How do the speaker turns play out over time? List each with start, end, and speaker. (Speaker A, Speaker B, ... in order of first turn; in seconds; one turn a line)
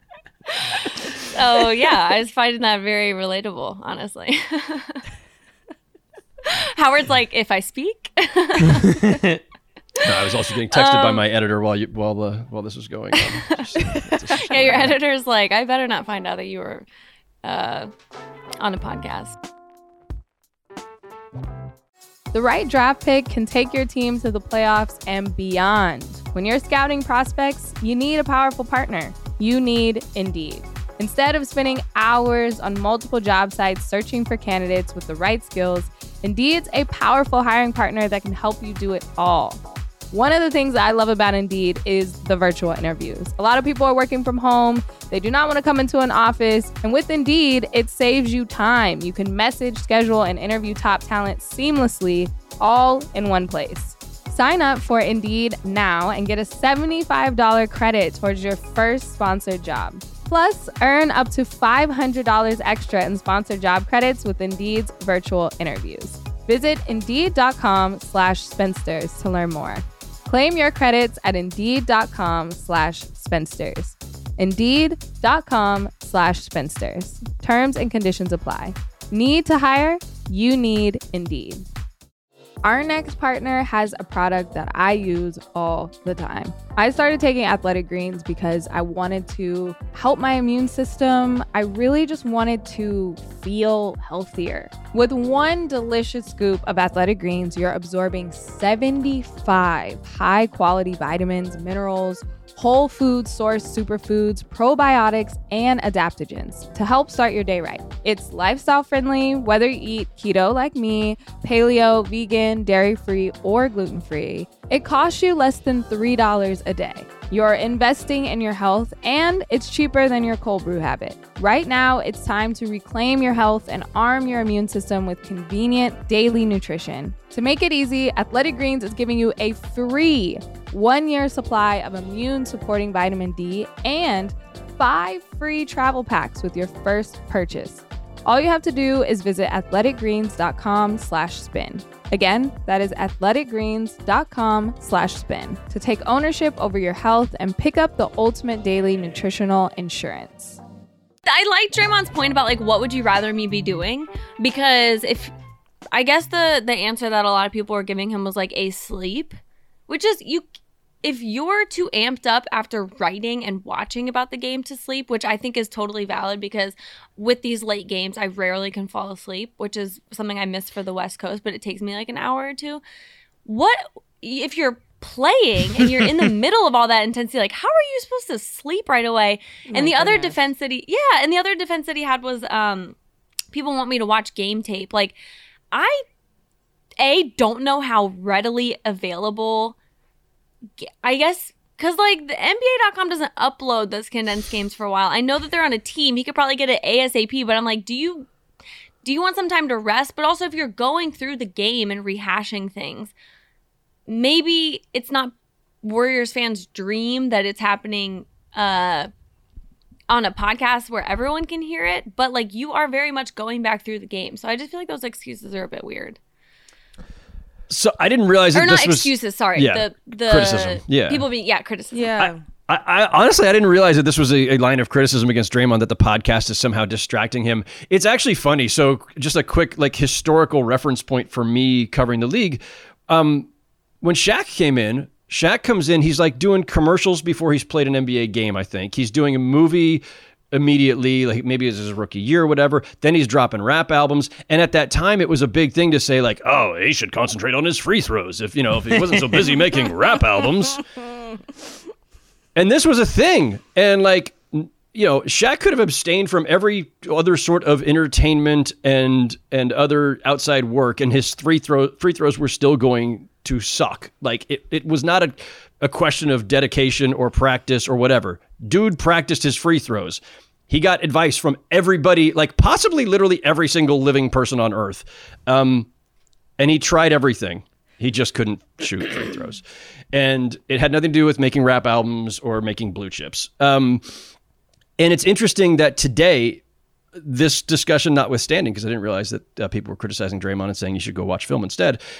Speaker A: 0.5-5.0
Speaker A: 6.4-9.4
Speaker B: 10.0-15.0
Speaker A: 10.7-11.2
Speaker A: 13.2-13.6
Speaker A: 14.2-16.9
Speaker A: 17.4-17.9
Speaker A: 18.6-19.4
Speaker C: 22.3-81.6
Speaker C: 82.6-150.6
Speaker A: 151.2-155.3
Speaker A: 155.9-160.4
Speaker A: 161.0-172.8
Speaker A: 173.4-182.9
Speaker C: 179.7-180.3
Speaker A: 183.5-185.1
Speaker A: 185.7-186.0
Speaker A: 187.0-189.7
Speaker A: 190.8-198.3
Speaker A: 199.0-203.1
Speaker A: 204.1-209.1
Speaker A: 210.1-216.2
Speaker B: 217.7-221.2
Speaker A: 218.5-222.2
Speaker C: 221.9-222.4
Speaker B: 222.2-233.5
Speaker B: 234.0-250.9
Speaker B: 252.5-275.9
Speaker B: 276.6-284.2
Speaker B: 285.0-286.6
Speaker B: 287.1-292.0